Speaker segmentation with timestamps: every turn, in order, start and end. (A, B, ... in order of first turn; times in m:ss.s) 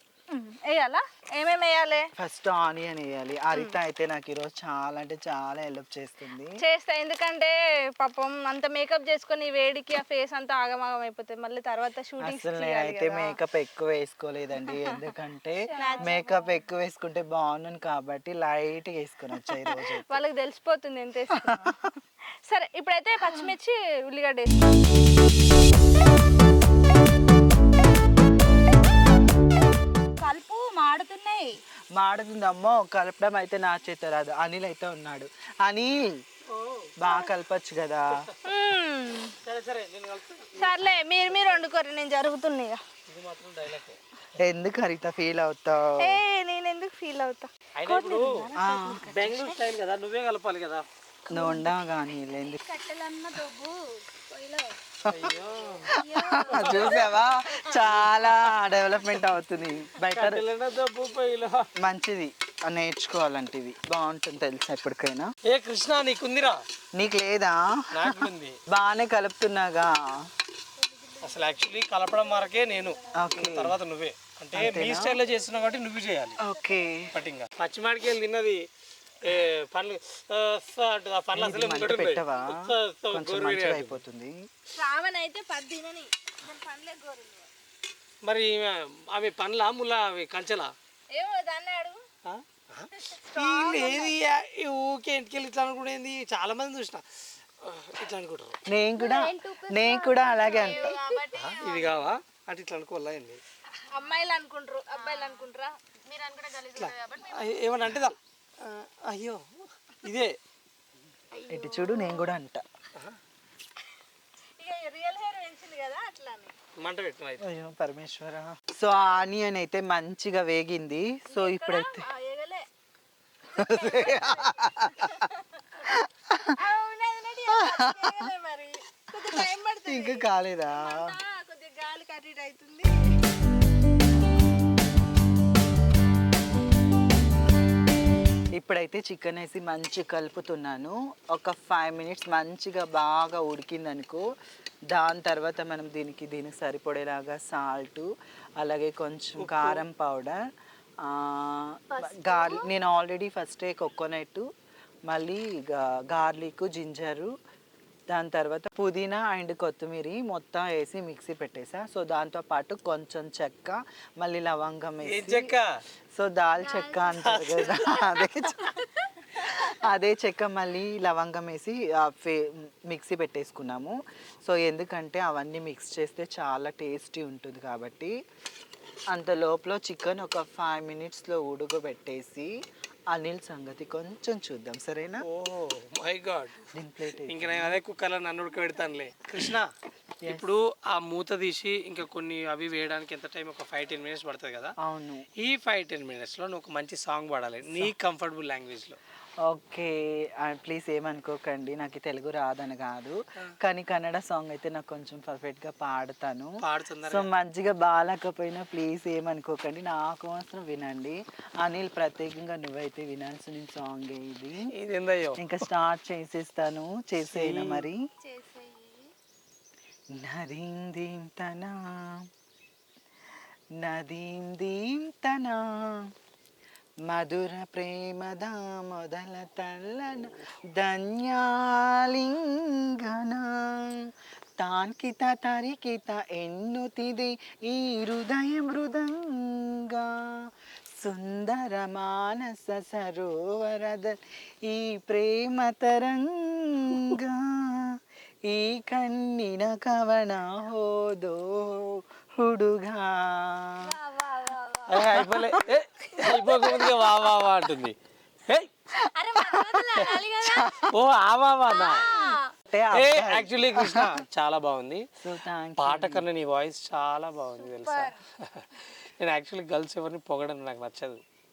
0:00.3-0:02.1 A
0:02.2-0:06.5 B
0:03.5-0:03.8 A
0:06.6-0:13.4 A
0:12.2-0:20.2 B
0:15.7-0:16.4 C
0:15.8-0:16.2 A
0:19.5-0:21.9 A
0:21.5-0:21.8 B
0:22.5-0:24.8 A
0:30.2-0:31.5 A
0:31.9-0:36.2 B
0:36.5-0:36.9 D
0:37.0-0:38.2 B
0:38.5-0:39.3 A
0:39.4-0:41.7 D
0:40.6-0:42.8 A
0:43.1-0:44.0 D
0:44.4-0:46.2 B
0:46.0-0:49.6 A
0:47.8-0:48.3 D
0:48.6-0:49.2 B
0:49.0-0:50.9 D
0:51.3-0:52.6 B
0:52.5-0:54.7 C
0:55.0-0:55.4 B
0:55.1-0:56.0 D
0:55.9-0:57.2 C
0:55.9-1:00.4 B
0:56.5-0:57.1 D
0:56.7-0:57.1 A
1:00.0-1:01.7 D
1:01.8-1:05.3 B
1:05.5-1:06.6 D
1:07.0-1:10.3 B
1:07.9-1:08.6 D
1:11.2-1:16.4 D
1:13.2-1:13.8 B
1:14.5-1:15.2 B
1:16.4-1:17.1 B
1:17.1-1:18.6 D
1:19.2-1:24.0 D
1:21.3-1:24.4 B
1:24.7-1:27.5 A
1:28.2-1:30.7 D
1:31.1-1:32.0 A
1:32.2-1:37.0 D
1:33.0-1:34.2 A
1:37.6-1:38.6 D
1:38.7-1:41.0 B
1:39.0-1:41.2 C
1:40.4-1:42.1 A
1:41.4-1:43.4 D
1:43.9-1:47.5 A
1:46.7-1:50.4 D
1:51.4-1:52.3 A
1:51.5-1:52.6 B
1:54.6-1:56.5 A
1:56.8-1:57.4 D
1:57.4-2:02.1 B
2:01.3-2:02.7 A
2:03.5-2:05.9 A
2:03.6-2:05.2 B
2:05.8-2:06.6 B
2:06.6-2:13.3 A
2:07.5-2:08.3 B
2:09.2-2:11.2 B
2:18.6-2:24.3 B
2:24.9-2:30.4 B
2:29.4-2:29.8 D
2:31.0-2:34.5 B
2:32.0-2:32.7 C
2:35.1-2:37.3 B
2:38.1-2:45.5 B
2:45.0-2:45.8 D
2:46.2-2:48.8 B
2:47.2-2:48.0 D
2:48.3-2:49.6 A
2:49.4-2:58.2 B
2:59.1-3:02.5 B
3:03.1-3:05.2 B
3:05.2-3:06.6 D
3:06.7-3:07.8 B
3:07.2-3:09.7 D
3:10.2-3:10.5 B
3:10.3-3:14.7 D
3:14.8-3:15.3 B
3:15.4-3:19.0 D
3:19.4-3:26.5 B
3:26.6-3:27.3 D
3:27.1-3:34.7 B
3:34.7-3:35.5 D
3:35.4-3:38.0 B
3:37.2-3:37.9 D
3:38.2-3:39.1 C
3:40.1-3:42.3 B
3:43.8-3:46.1 B
3:47.1-4:14.0 B
4:13.9-4:14.9 A
4:14.9-4:18.0 D
4:16.3-4:17.1 A
4:18.5-4:18.7 D
4:19.2-4:20.7 A
4:19.4-4:19.8 B
4:20.0-4:20.2 D
4:20.4-4:20.9 B
4:20.9-4:22.1 D
4:21.7-4:22.4 A
4:22.7-4:24.1 B
4:22.9-4:25.1 D
4:25.2-4:26.2 B
4:25.8-4:31.2 D